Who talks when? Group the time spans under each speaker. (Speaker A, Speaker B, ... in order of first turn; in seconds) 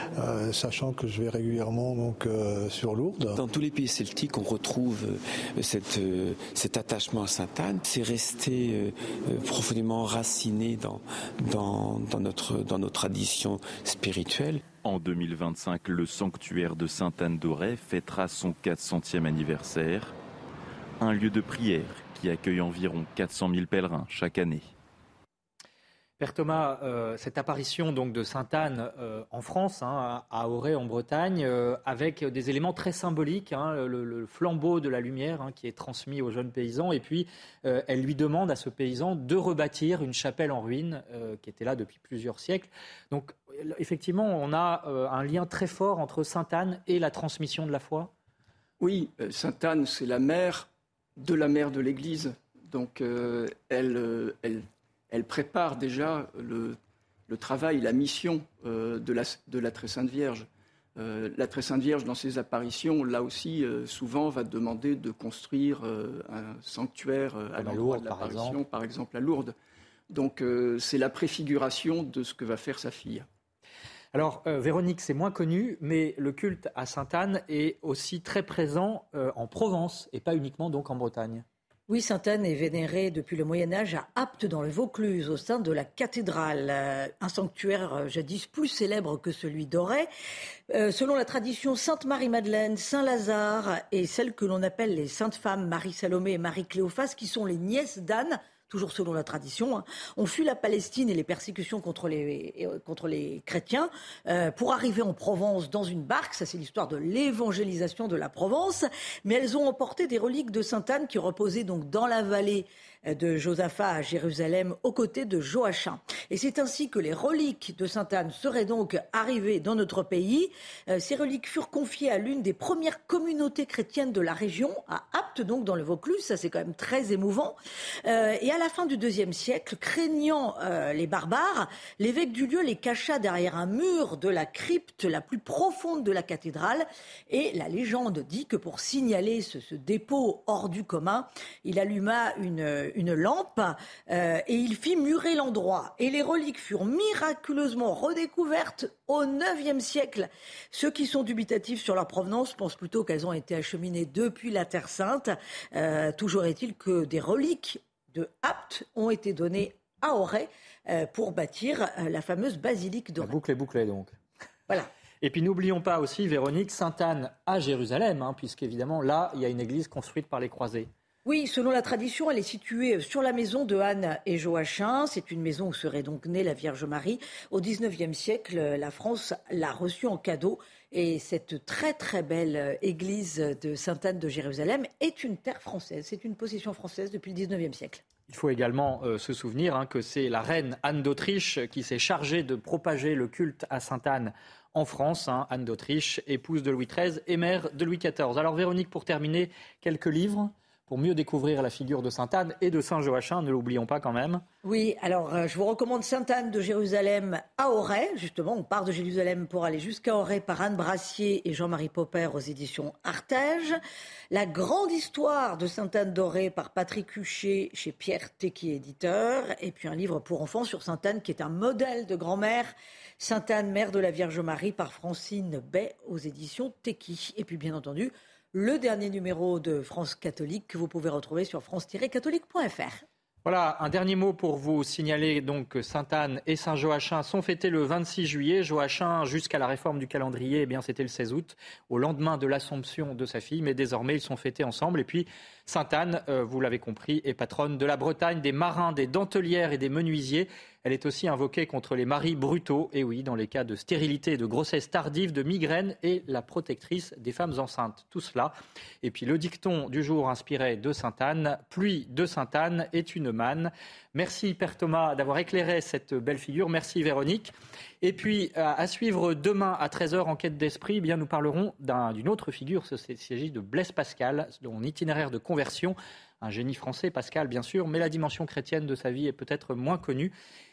Speaker A: 0.2-3.4
Speaker B: 3.4-14.7
Speaker C: 14.8-20.1, 21.0-24.7
Speaker D: 26.2-48.1, 67.6-68.6, 74.1-81.4, 163.2-164.1, 165.2-170.9, 188.3-204.4, 233.4-280.3
Speaker E: 48.8-56.8, 57.3-69.5, 70.1-73.2
Speaker F: 81.9-90.1, 90.7-163.4, 171.2-188.0, 204.6-213.8, 214.3-233.0